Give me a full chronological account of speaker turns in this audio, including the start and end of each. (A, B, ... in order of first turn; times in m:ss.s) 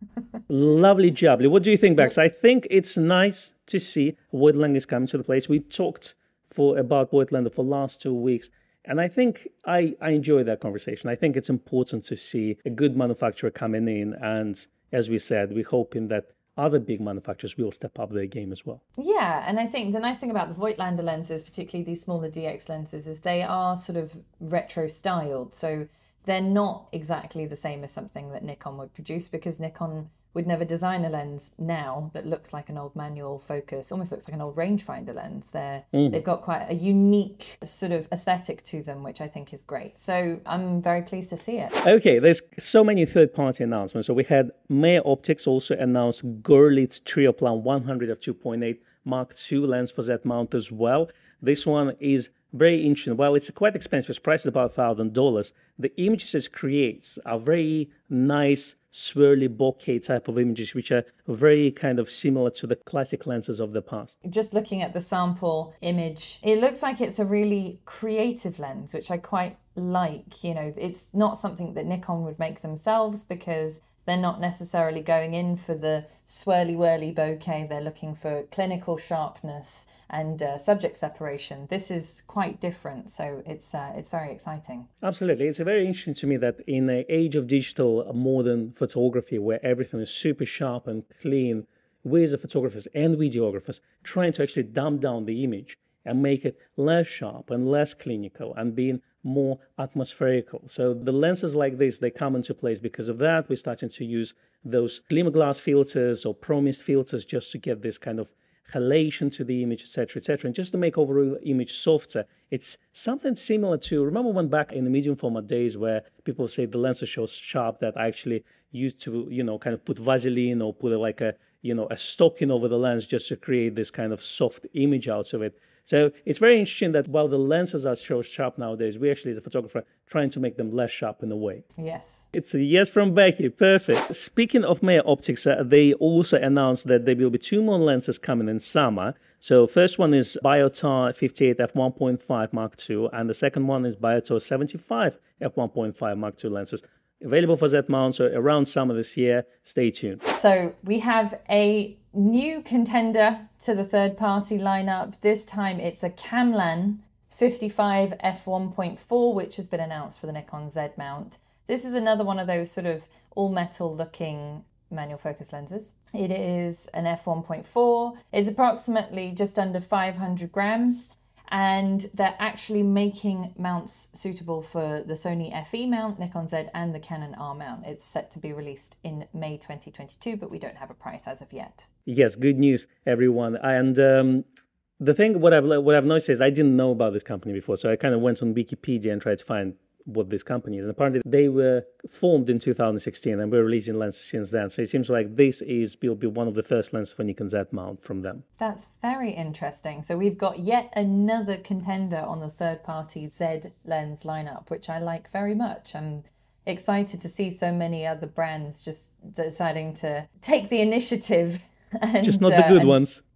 0:00.5-0:18.8 A
0:19.0-0:41.8 B
0:35.9-0:36.2 A
0:41.8-1:04.2 A
1:04.2-1:24.9 B
1:25.0-2:11.6 A
2:11.8-2:12.3 B
2:12.3-2:30.2 A
2:30.3-3:01.9 B
3:02.1-3:04.4 A
3:05.0-3:18.4 A
3:18.6-3:33.0 B
3:32.2-3:33.2 A